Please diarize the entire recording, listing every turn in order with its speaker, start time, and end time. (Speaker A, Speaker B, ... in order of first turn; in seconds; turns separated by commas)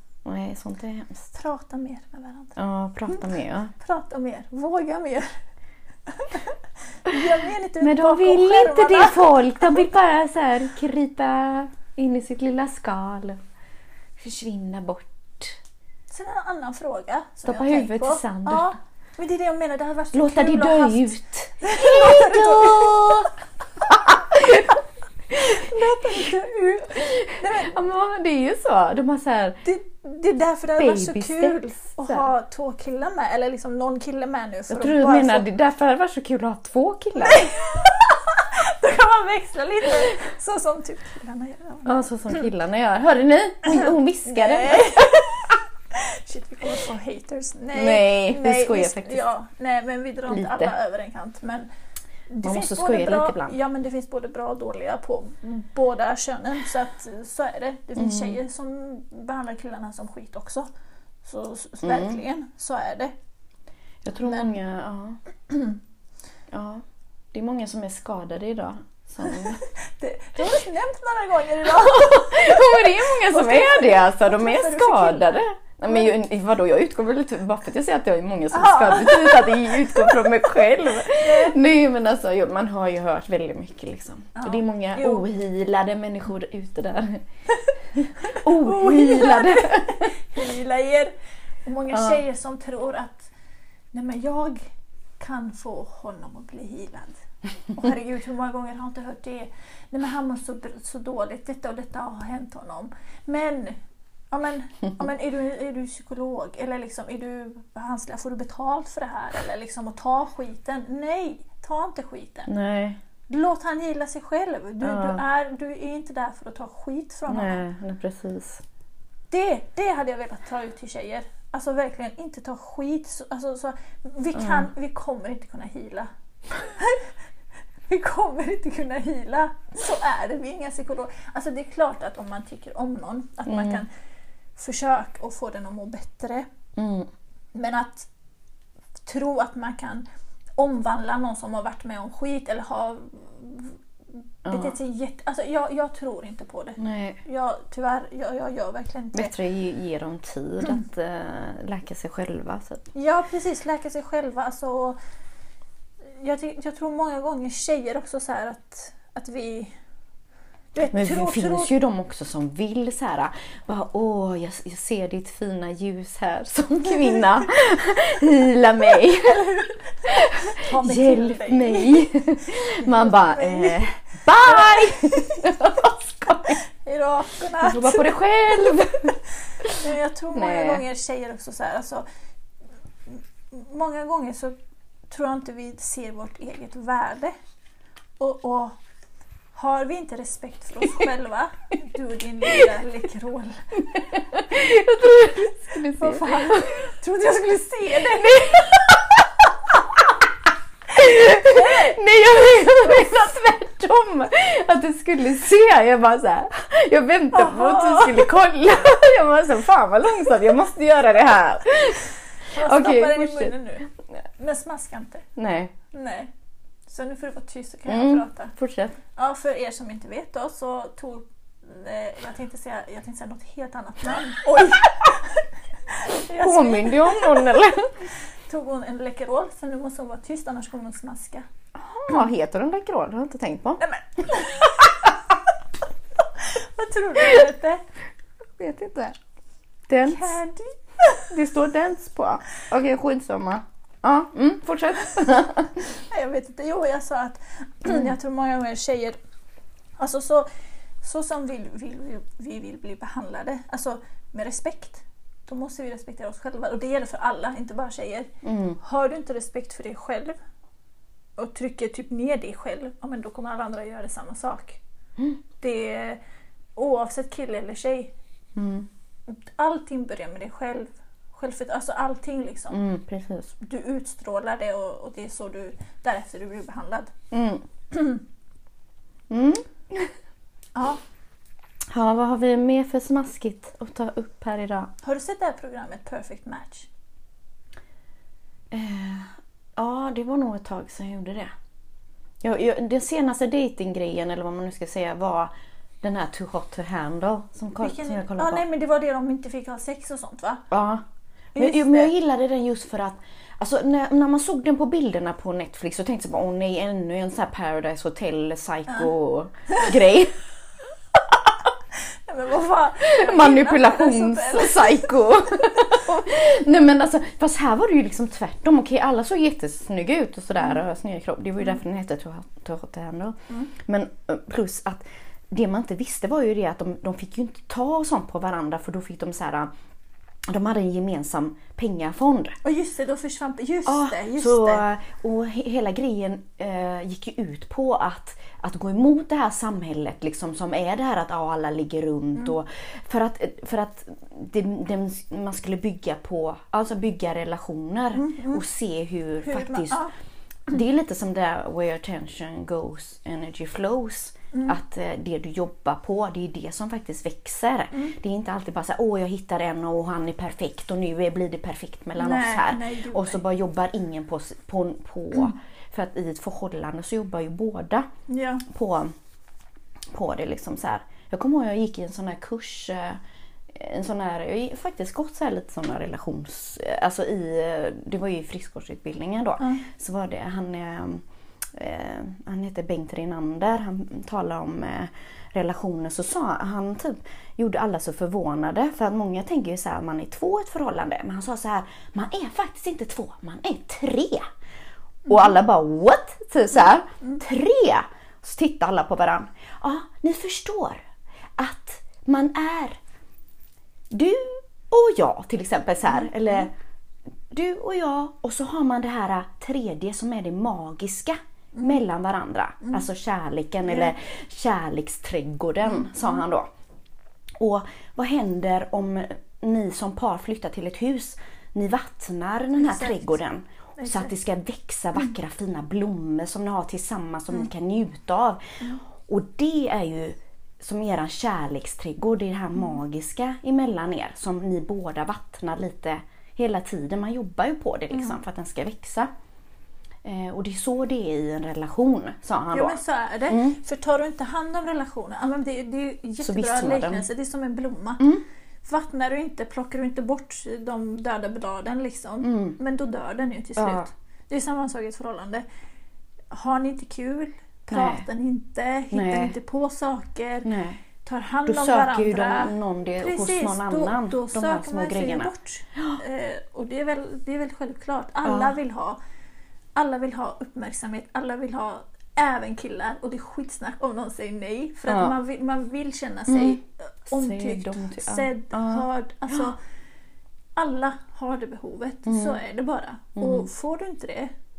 Speaker A: 0.2-1.3, Speaker B: 1.3-2.6, Speaker A: 2.6-3.7, Speaker B: 3.1-5.4, Speaker B: 6.1-9.9, Speaker A: 7.8-13.4, Speaker A: 14.2-15.6, Speaker B: 16.1-23.3, Speaker A: 17.5-18.7, Speaker A: 20.1-26.3, Speaker B: 25.4-27.8, Speaker A: 26.9-29.6, Speaker B: 29.6-35.5, Speaker A: 30.8-32.3, Speaker A: 34.7-37.5, Speaker B: 37.2-42.0, Speaker A: 41.9-45.2, Speaker B: 43.7-51.7, Speaker A: 47.7-49.3, Speaker A: 50.3-50.7, Speaker B: 52.3-60.7, Speaker A: 52.4-53.6, Speaker A: 58.0-58.4, Speaker B: 61.2-63.1, Speaker A: 61.8-62.2, Speaker A: 64.0-65.2, Speaker B: 64.2-64.5, Speaker B: 65.5-65.8, Speaker A: 66.5-69.6, Speaker B: 69.3-76.1, Speaker A: 71.7-87.2, Speaker B: 78.5-81.6, Speaker B: 84.3-85.3, Speaker A: 87.9-90.1, Speaker B: 88.2-91.1, Speaker B: 91.7-93.3, Speaker A: 91.9-92.2, Speaker B: 93.9-94.6, Speaker B: 95.2-103.8, Speaker B: 104.3-112.5, Speaker A: 112.5-113.0, Speaker B: 113.3-117.6, Speaker A: 114.8-115.2, Speaker A: 117.3-118.6, Speaker B: 119.3-127.1, Speaker A: 124.3-124.7, Speaker B: 127.9-133.9, Speaker A: 133.5-133.8, Speaker B: 134.6-136.5, Speaker A: 136.8-137.1, Speaker B: 137.5-138.1, Speaker B: 139.1-140.1, Speaker B: 140.6-149.3, Speaker A: 144.5-144.8, Speaker A: 146.8-147.2, Speaker A: 149.1-152.8, Speaker B: 152.9-155.0, Speaker B: 156.2-159.7, Speaker B: 160.7-161.7, Speaker A: 160.9-176.6, Speaker B: 169.3-169.7, Speaker B: 170.5-175.5, Speaker B: 176.5-182.1, Speaker A: 177.6-180.8, Speaker B: 183.1-184.6, Speaker B: 185.1-187.4, Speaker B: 188.2-188.8, Speaker B: 189.5-194.1, Speaker A: 193.8-196.8, Speaker B: 195.7-198.9, Speaker A: 198.2-200.2, Speaker A: 200.9-213.5, Speaker B: 201.3-202.0, Speaker B: 207.3-208.3, Speaker B: 212.5-215.3, Speaker A: 215.4-215.7, Speaker B: 215.9-216.3, Speaker B: 216.9-218.6, Speaker A: 217.9-219.0, Speaker B: 219.2-227.6, Speaker A: 226.4-227.9, Speaker B: 228.5-231.5, Speaker A: 231.8-233.8, Speaker B: 233.8-235.1, Speaker B: 236.4-237.8, Speaker A: 238.6-239.2, Speaker A: 239.9-240.4, Speaker B: 240.1-241.3, Speaker A: 241.3-245.7, Speaker B: 245.9-249.2, Speaker B: 250.0-250.5, Speaker B: 251.0-260.4, Speaker A: 258.4-258.8, Speaker B: 261.4-264.8, Speaker B: 265.6-266.2, Speaker B: 266.8-268.1, Speaker A: 268.6-268.9, Speaker B: 269.3-272.8, Speaker A: 272.7-273.6, Speaker B: 273.6-277.1, Speaker A: 277.3-277.6, Speaker B: 277.9-278.2, Speaker A: 279.3-280.1, Speaker B: 280.8-281.0, Speaker A: 281.9-284.9, Speaker B: 285.0-286.9, Speaker A: 288.7-291.5, Speaker A: 292.4-298.6, Speaker B: 297.8-300.7, Speaker A: 300.7-301.0, Speaker B: 301.6-302.1, Speaker A: 301.6-310.3, Speaker B: 312.3-315.1, Speaker A: 313.0-329.7, Speaker A: 330.5-332.6, Speaker B: 332.6-334.8, Speaker A: 333.9-350.0, Speaker B: 348.1-348.6, Speaker B: 349.4-350.1, Speaker A: 350.7-368.1, Speaker B: 362.2-363.4, Speaker B: 368.3-368.6, Speaker A: 368.7-369.1, Speaker A: 370.1-394.5, Speaker B: 379.6-379.9, Speaker A: 395.3-401.0, Speaker A: 401.6-403.0, Speaker A: 404.1-406.7, Speaker A: 407.5-416.7, Speaker B: 415.9-416.4, Speaker A: 417.6-428.6, Speaker B: 422.8-423.4, Speaker B: 424.0-424.3, Speaker A: 429.2-439.3, Speaker B: 438.1-438.4, Speaker A: 440.2-443.8, Speaker B: 442.7-448.3, Speaker A: 446.4-447.2, Speaker B: 448.9-455.6, Speaker A: 452.4-452.8, Speaker A: 453.8-454.1, Speaker B: 456.5-460.7, Speaker A: 457.9-458.2, Speaker A: 459.1-459.6, Speaker A: 460.6-461.0, Speaker B: 461.2-469.2, Speaker A: 461.7-466.2, Speaker A: 468.4-468.8, Speaker B: 470.0-479.8, Speaker A: 475.1-475.4, Speaker A: 476.5-476.8, Speaker A: 477.3-479.7, Speaker B: 480.8-484.5, Speaker A: 482.3-482.6, Speaker A: 483.4-483.7